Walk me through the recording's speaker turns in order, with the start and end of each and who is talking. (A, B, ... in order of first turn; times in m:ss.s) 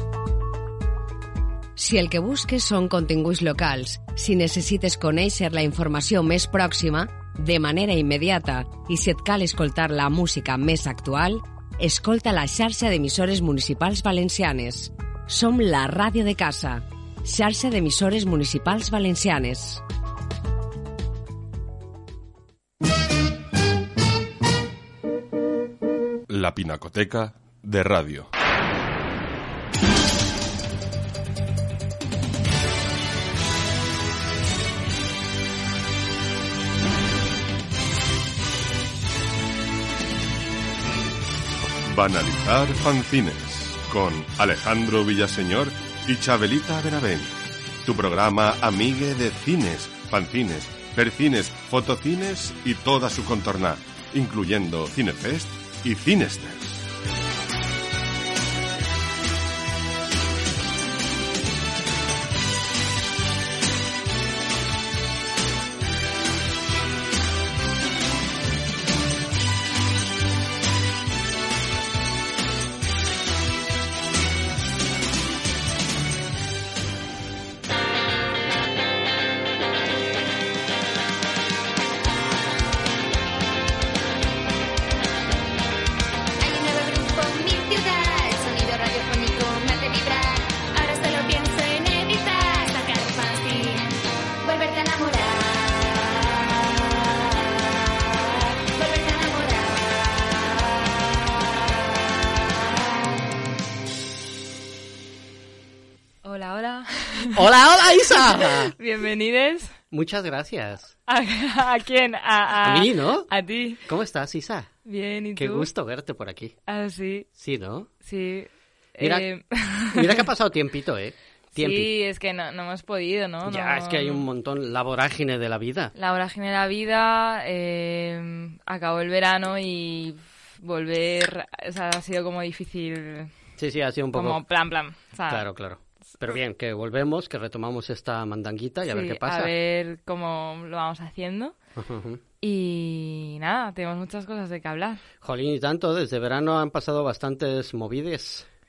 0:01.8-0:19.8 A
0:26.3-0:28.3 B
0:41.8-0:56.8 B
1:26.4-1:40.7 C
1:46.2-1:47.4 D
1:47.4-1:48.7 E
1:48.2-1:49.8 D
1:49.9-1:50.9 E
1:51.1-1:53.8 D
1:52.6-1:53.3 E
1:53.8-1:54.7 E
1:54.8-1:55.7 D
1:55.4-1:56.5 E
1:56.7-1:57.3 D
1:57.3-1:57.9 E
1:58.0-2:00.2 D
1:59.0-1:59.3 E
1:59.9-2:01.9 E
2:01.5-2:04.3 D
2:03.4-2:05.9 E
2:05.9-2:13.3 D
2:13.6-2:14.4 E
2:14.1-2:15.4 D
2:15.3-2:19.5 E
2:18.9-2:21.5 D
2:21.8-2:22.2 E
2:22.4-2:25.0 D
2:25.2-2:28.5 E